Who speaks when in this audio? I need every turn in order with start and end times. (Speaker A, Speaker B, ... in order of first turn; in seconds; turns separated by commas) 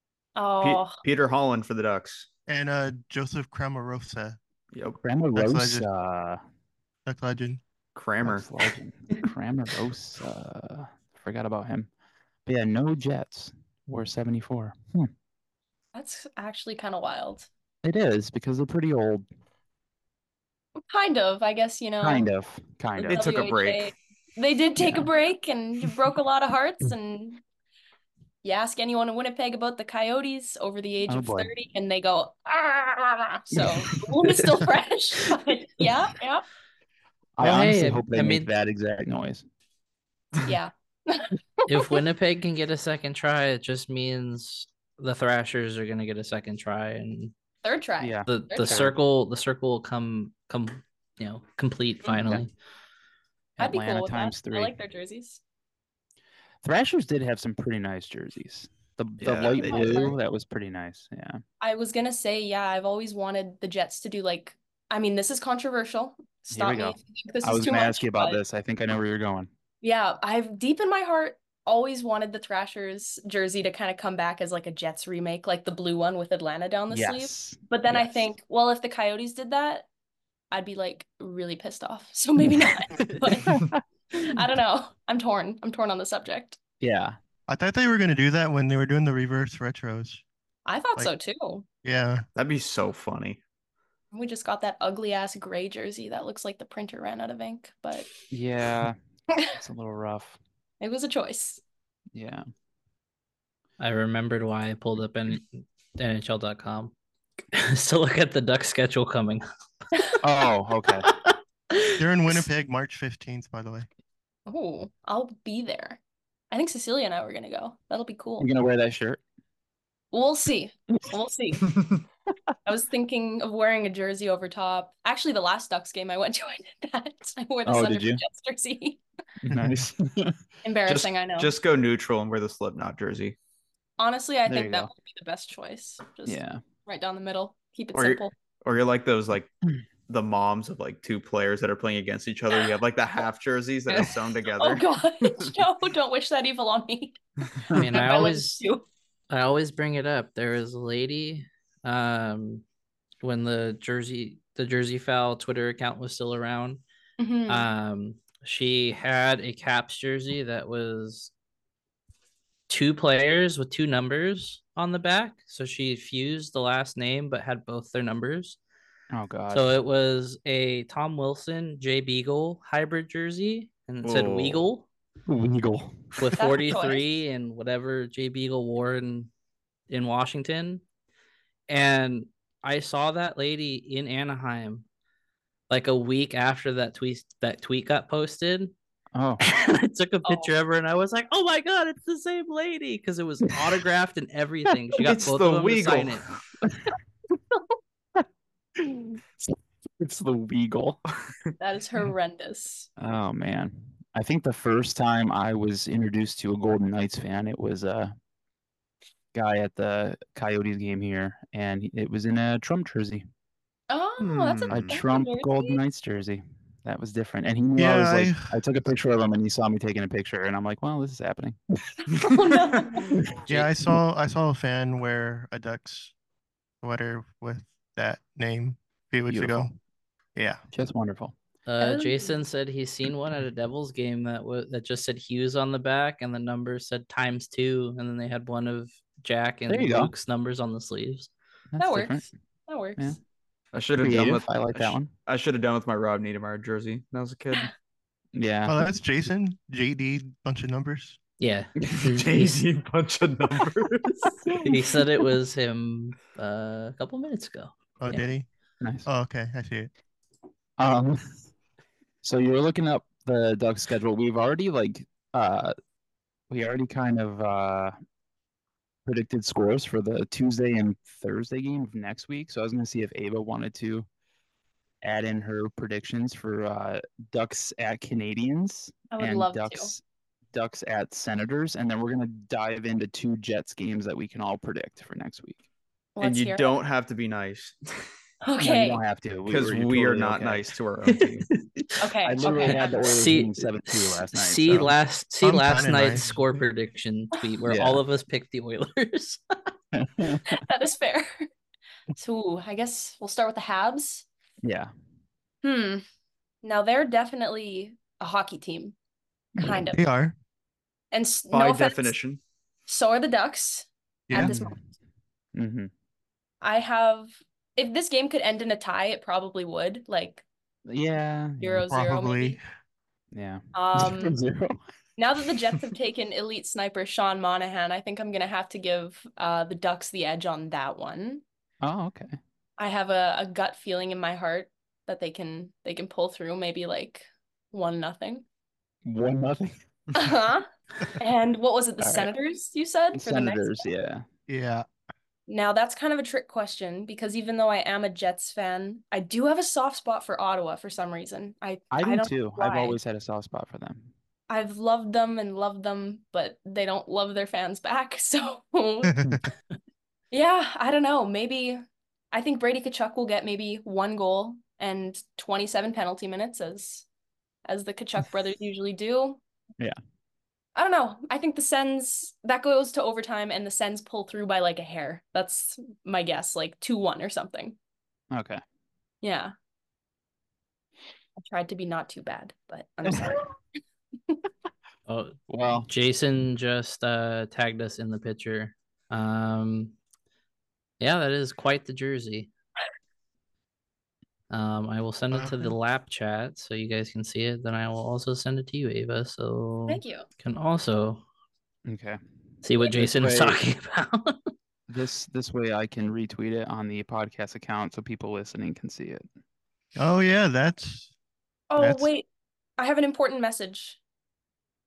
Speaker A: 0.4-1.0, Speaker B: 0.6-2.3, Speaker C: 2.5-4.4, Speaker B: 4.7-5.0, Speaker D: 5.0-6.4, Speaker C: 5.3-5.8, Speaker C: 7.1-7.6, Speaker B: 8.0-8.5, Speaker D: 8.2-11.9, Speaker D: 12.5-15.1, Speaker A: 15.9-17.5, Speaker D: 17.8-19.3, Speaker A: 20.9-22.3, Speaker D: 22.0-23.3, Speaker B: 23.0-23.9, Speaker A: 23.1-27.4, Speaker D: 24.8-25.1, Speaker A: 28.4-36.5, Speaker D: 31.1-31.5, Speaker D: 33.5-33.9, Speaker D: 37.4-39.5, Speaker E: 37.4-38.5, Speaker A: 40.4-42.0, Speaker E: 41.7-47.3, Speaker A: 47.6-48.8, Speaker D: 48.0-49.0, Speaker E: 48.3-52.5, Speaker A: 52.1-52.4, Speaker D: 53.6-54.8, Speaker A: 53.6-55.4, Speaker D: 56.6-61.4, Speaker B: 59.2-60.1, Speaker A: 59.4-60.2, Speaker A: 61.6-68.4, Speaker D: 66.5-69.5, Speaker A: 69.8-79.9, Speaker D: 76.9-78.3, Speaker A: 80.5-83.6, Speaker D: 83.4-83.8, Speaker A: 84.2-86.6, Speaker D: 86.8-87.2, Speaker C: 87.5-90.2, Speaker A: 90.7-91.7, Speaker C: 91.8-92.2, Speaker B: 92.4-93.4, Speaker A: 94.1-98.1, Speaker D: 98.3-100.4, Speaker A: 100.8-101.6, Speaker D: 102.2-102.5, Speaker E: 103.8-106.9, Speaker E: 107.5-109.4, Speaker D: 110.2-111.1, Speaker E: 111.1-111.3, Speaker C: 112.0-113.9, Speaker A: 114.5-116.0, Speaker A: 116.5-118.5, Speaker D: 118.4-119.2, Speaker A: 120.1-121.8, Speaker A: 122.7-129.0, Speaker D: 127.7-128.2, Speaker D: 129.4-130.4, Speaker A: 130.6-131.5, Speaker B: 130.9-133.4, Speaker A: 134.0-138.3, Speaker D: 134.5-134.9, Speaker D: 136.3-136.6, Speaker B: 137.9-139.5, Speaker B: 140.1-145.5, Speaker A: 144.6-147.2, Speaker A: 147.7-148.8, Speaker E: 147.7-148.6, Speaker E: 149.3-152.6, Speaker E: 153.2-156.8, Speaker A: 157.2-157.7, Speaker E: 157.5-161.3, Speaker E: 162.7-168.6, Speaker D: 169.1-169.7, Speaker E: 169.5-174.9, Speaker B: 174.0-174.7, Speaker D: 175.3-176.4, Speaker E: 176.2-179.3, Speaker A: 176.4-177.1, Speaker E: 179.9-180.8, Speaker E: 181.7-184.8, Speaker E: 185.7-188.7, Speaker D: 189.1-189.4, Speaker E: 189.4-196.3, Speaker A: 190.2-190.5, Speaker B: 195.0-196.4, Speaker D: 198.8-201.0, Speaker A: 201.6-202.9, Speaker D: 203.0-208.1, Speaker D: 209.3-213.2, Speaker A: 213.9-215.8, Speaker B: 214.2-215.0, Speaker D: 214.7-223.5, Speaker C: 217.8-218.5, Speaker A: 222.2-223.2, Speaker C: 223.5-226.1, Speaker C: 226.8-229.8, Speaker D: 229.3-229.7, Speaker C: 230.4-230.6, Speaker D: 230.7-231.3, Speaker E: 231.7-241.3, Speaker A: 231.8-232.4, Speaker D: 239.7-240.1, Speaker D: 241.7-242.3, Speaker A: 241.8-243.2, Speaker B: 243.7-247.7, Speaker D: 244.0-245.1, Speaker D: 248.3-248.8, Speaker C: 248.7-251.2, Speaker E: 251.4-252.6, Speaker B: 252.0-254.3, Speaker D: 254.5-254.7, Speaker E: 254.6-258.3, Speaker C: 258.0-258.5, Speaker D: 258.8-259.1, Speaker C: 259.1-259.9, Speaker D: 260.8-261.4, Speaker D: 262.2-265.8, Speaker D: 266.5-267.9, Speaker D: 269.1-274.1, Speaker D: 275.0-280.0, Speaker A: 279.1-279.9, Speaker D: 280.5-285.6, Speaker A: 286.2-286.7, Speaker B: 286.2-288.1, Speaker A: 288.4-289.0, Speaker D: 288.6-290.7, Speaker B: 289.5-291.5, Speaker E: 291.2-291.9, Speaker A: 292.0-293.2, Speaker D: 292.2-294.9, Speaker E: 292.6-299.7, Speaker C: 295.4-296.5, Speaker D: 297.7-298.0, Speaker D: 299.9-300.5, Speaker A: 300.5-301.5, Speaker A: 302.2-304.2, Speaker D: 304.6-304.9, Speaker A: 305.6-306.0, Speaker A: 306.6-308.9, Speaker A: 309.6-310.0, Speaker C: 309.9-310.3, Speaker A: 311.1-312.1, Speaker B: 311.5-312.4, Speaker A: 312.9-314.6, Speaker C: 314.3-314.7, Speaker D: 314.3-314.8, Speaker D: 315.6-315.9, Speaker A: 316.6-320.4, Speaker D: 320.9-321.9, Speaker A: 321.6-322.6, Speaker C: 321.9-322.6, Speaker D: 323.3-324.8, Speaker A: 323.7-324.4, Speaker A: 325.2-331.4, Speaker D: 325.6-325.9, Speaker D: 331.8-332.4, Speaker A: 332.8-338.4, Speaker D: 339.0-339.8, Speaker A: 340.2-343.8, Speaker D: 342.0-342.3, Speaker D: 343.1-344.2, Speaker C: 344.5-344.9, Speaker A: 345.5-353.0, Speaker D: 351.9-354.1, Speaker A: 354.5-359.1, Speaker C: 359.1-359.5, Speaker A: 360.3-367.1, Speaker A: 367.7-369.4, Speaker A: 370.8-377.8, Speaker D: 378.3-378.6, Speaker A: 379.2-379.5, Speaker A: 381.4-383.5, Speaker D: 383.1-383.4, Speaker E: 385.1-385.4, Speaker D: 385.5-385.9, Speaker E: 385.9-390.0, Speaker E: 391.0-392.5, Speaker E: 394.5-401.2, Speaker C: 395.3-395.7, Speaker A: 399.9-400.3, Speaker D: 401.9-402.2, Speaker E: 402.6-404.4, Speaker D: 402.9-403.6, Speaker D: 404.9-409.3, Speaker C: 410.0-411.1, Speaker A: 411.7-412.2, Speaker C: 411.8-412.1, Speaker A: 412.8-414.0